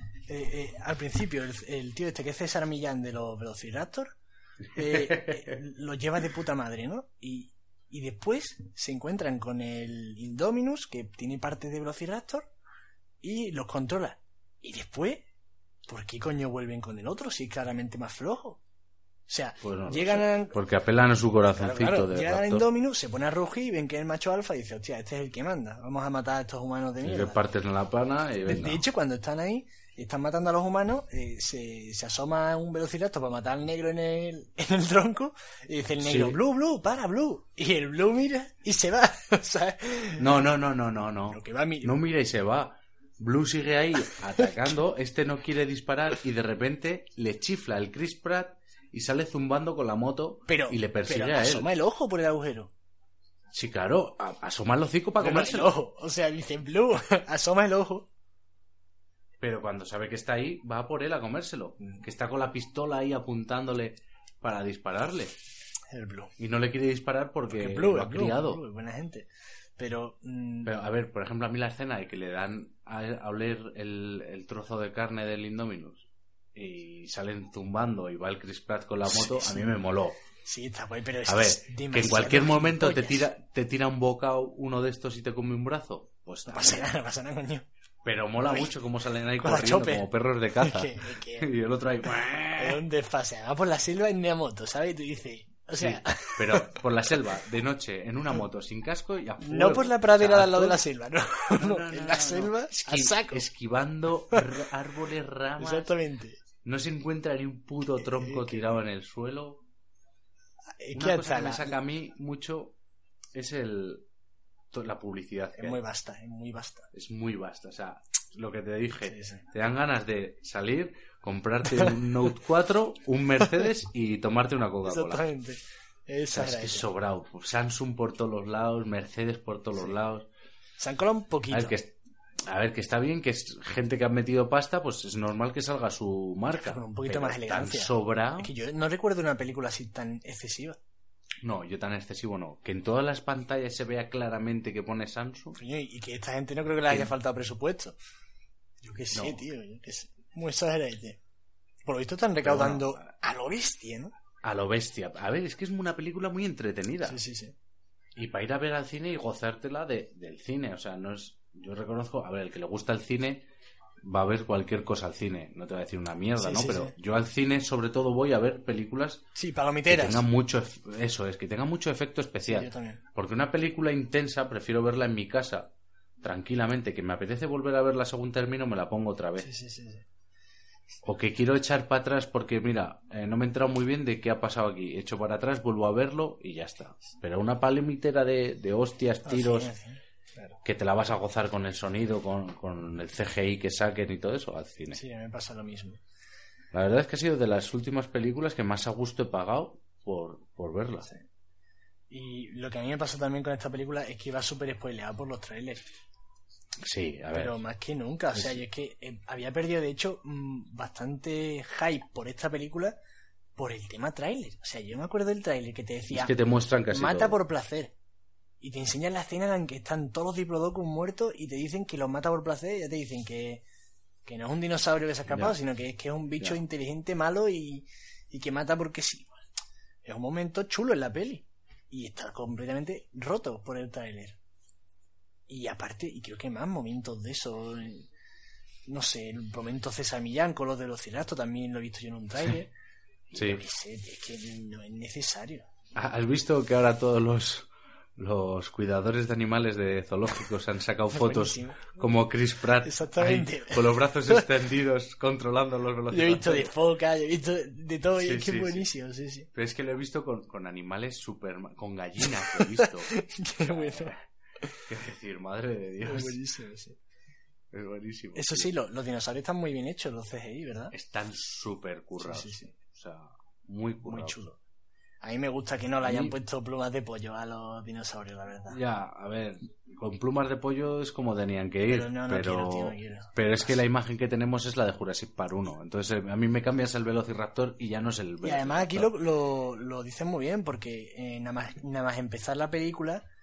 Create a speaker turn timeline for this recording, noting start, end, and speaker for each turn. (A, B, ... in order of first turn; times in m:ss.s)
0:00.3-0:04.1 A
0:04.7-0:12.5 A
0:04.8-0:05.6 B
0:13.2-0:15.2 A
0:15.9-0:18.6 A
0:19.3-0:20.6 A
0:19.6-0:22.6 B
0:21.6-0:27.4 A
0:27.0-0:28.8 B
0:28.4-0:40.4 A
0:36.0-0:36.4 B
0:40.2-0:51.7 B
0:41.3-0:42.0 A
0:50.5-0:52.7 A
0:53.5-0:55.7 B
0:55.2-0:58.1 A
0:59.4-1:05.3 B
1:05.9-1:06.3 A
1:06.4-1:08.6 B
1:07.5-1:10.7 A
1:10.6-1:20.2 B
1:19.0-1:19.7 A
1:20.4-1:23.2 A
1:21.3-1:26.9 B
1:26.5-1:27.6 A
1:28.0-1:32.8 B
1:28.4-1:28.7 A
1:29.4-1:31.5 A
1:32.6-1:36.8 A
1:35.8-1:40.8 B
1:39.4-1:43.4 A
1:41.5-1:45.9 B
1:45.6-1:46.4 A
1:46.6-1:49.6 B
1:48.1-1:48.6 A
1:50.8-1:51.8 A
1:50.9-1:52.8 B
1:53.3-1:54.0 B
1:54.7-1:55.8 B
1:55.6-1:56.9 A
1:56.9-2:05.2 B
1:59.0-1:59.4 A
2:04.8-2:06.9 A
2:06.3-2:10.3 B
2:10.8-2:11.8 A
2:11.5-2:11.9 B
2:12.5-2:18.5 B
2:16.5-2:20.8 A
2:21.4-2:25.6 B
2:25.5-2:28.0 A
2:26.9-2:27.1 B
2:28.8-2:31.2 A
2:29.1-2:29.4 B
2:31.8-2:34.1 A
2:32.4-2:33.0 B
2:34.4-2:37.2 B
2:37.0-2:37.5 A
2:38.1-2:43.4 B
2:44.0-2:49.2 B
2:46.4-2:46.9 A
2:49.3-2:50.2 A
2:49.9-2:55.7 B
2:52.5-2:53.0 A
2:56.2-2:59.5 B
2:59.4-3:00.0 A
3:01.0-3:09.7 B
3:09.2-3:10.6 A
3:10.6-3:15.0 B
3:14.9-3:16.0 A
3:16.7-3:21.1 B
3:22.1-3:25.8 A
3:26.8-3:27.6 B
3:27.3-3:33.0 A
3:28.3-3:28.6 B
3:33.6-3:36.3 A
3:36.1-3:37.4 B
3:36.9-3:37.9 A
3:38.6-3:43.6 A
3:44.2-3:49.3 A
3:45.3-3:45.6 B
3:50.0-3:54.4 A
3:55.5-3:58.1 A
3:58.9-4:02.7 A
4:03.3-4:05.6 A
4:03.3-4:03.6 B
4:05.9-4:16.7 B
4:11.1-4:11.8 A
4:12.8-4:14.5 A
4:16.1-4:19.5 A
4:18.2-4:18.9 B
4:19.5-4:24.2 B
4:22.2-4:24.1 A
4:24.9-4:26.4 B
4:26.0-4:27.0 A
4:27.7-4:28.7 B
4:28.3-4:30.9 A
4:30.9-4:34.4 B
4:32.2-4:32.7 A
4:34.0-4:34.6 A
4:35.2-4:38.8 A
4:36.0-4:36.4 B
4:38.7-4:49.1 B
4:41.9-4:43.8 A
4:48.4-4:53.2 A